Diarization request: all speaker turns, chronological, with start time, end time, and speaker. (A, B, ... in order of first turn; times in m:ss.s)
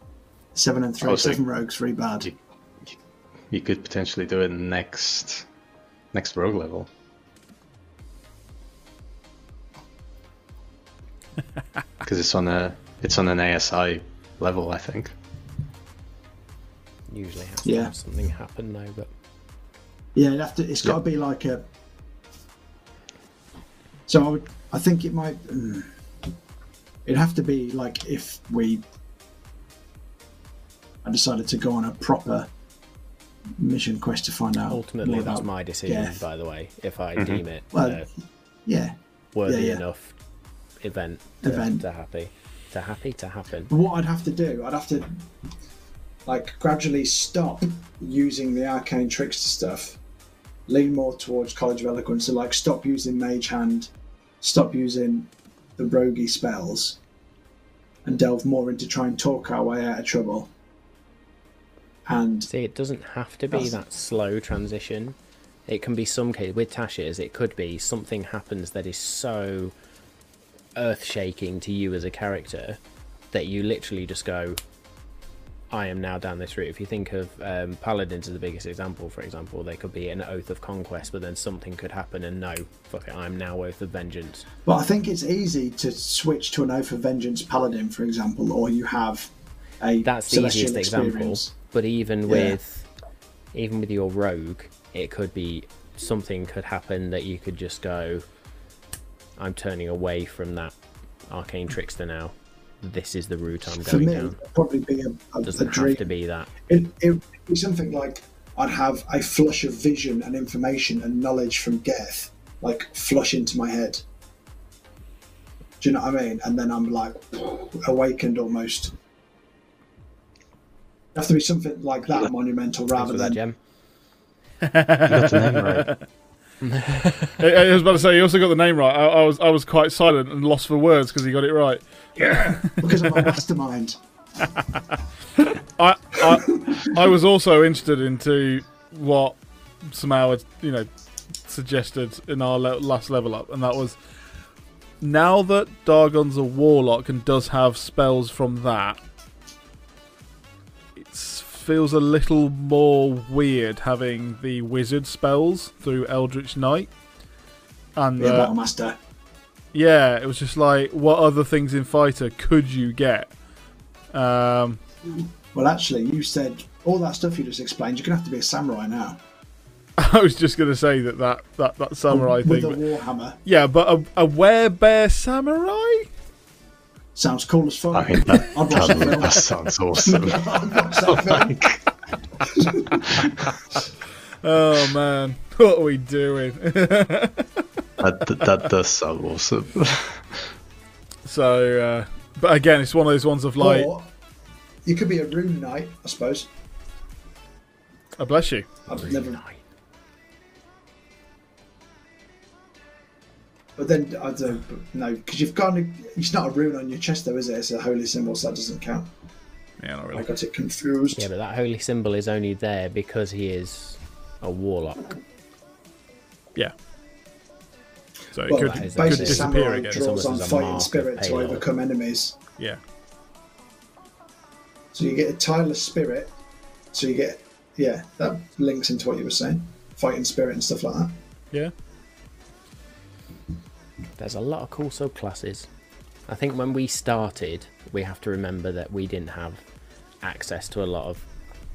0:00.5-0:02.3 A
0:01.0-0:01.4 B
0:03.5-0:05.4 B
0:06.1-0:06.9 B
0:12.0-0:15.1 B
0:17.1-0:19.1 C
0:17.6-0:17.9 A
0:20.1-0:21.6 A
0:24.1-0:25.9 A
0:27.0-0:28.8 A
0:31.0-0:32.5 A
0:33.6-0:36.2 A
0:34.7-0:38.1 C
0:37.2-0:37.4 B
0:37.7-0:38.1 A
0:38.6-0:39.8 A
0:39.3-0:40.2 C
0:40.8-0:43.7 C
0:41.4-0:41.8 A
0:43.7-0:45.2 A
0:46.2-0:50.0 A
0:50.7-0:53.9 A
0:54.4-0:57.0 A
0:58.0-1:00.5 A
1:02.0-1:02.5 A
1:02.5-1:05.2 C
1:05.7-1:09.7 C
1:10.8-1:12.8 C
1:13.3-1:14.6 C
1:15.7-1:24.5 C
1:24.6-1:31.5 A
1:30.0-1:32.9 C
1:32.3-1:32.6 A
1:33.5-1:38.2 C
1:39.4-1:40.7 C
1:41.3-1:44.4 C
1:43.8-1:46.0 A
1:45.4-1:46.5 C
1:46.7-1:54.0 A
1:55.8-1:58.9 A
2:01.1-2:03.4 A
2:02.9-2:03.6 C
2:04.6-2:06.0 D
2:05.0-2:05.9 B
2:06.6-2:07.3 C
2:07.4-2:11.8 D
2:12.2-2:14.0 A
2:15.8-2:20.9 D
2:16.3-2:16.8 A
2:21.4-2:24.0 D
2:25.0-2:29.0 D
2:31.0-2:36.9 D
2:38.0-2:38.5 D
2:38.2-2:39.0 A
2:39.7-2:43.3 D
2:44.1-2:44.8 D
2:45.5-2:49.2 A
2:50.0-2:52.8 D
2:52.1-2:53.4 A
2:53.4-2:56.1 D
2:57.1-3:01.7 A
2:57.9-3:01.8 B
3:02.4-3:03.2 A
3:03.0-3:03.5 B
3:04.4-3:07.6 D
3:08.0-3:10.5 B
3:11.2-3:13.9 D
3:13.6-3:14.1 A
3:14.8-3:16.5 A
3:18.2-3:18.7 D
3:18.9-3:19.4 A
3:18.9-3:19.6 C
3:23.8-3:29.1 A
3:29.8-3:30.2 D
3:30.1-3:31.2 A
3:31.1-3:35.1 C
3:38.3-3:40.0 D
3:38.4-3:42.4 A
3:38.5-3:41.6 C
3:44.9-3:46.3 A
3:46.9-3:51.2 A
3:54.2-3:55.7 C
3:56.3-3:59.6 C
4:00.2-4:01.2 C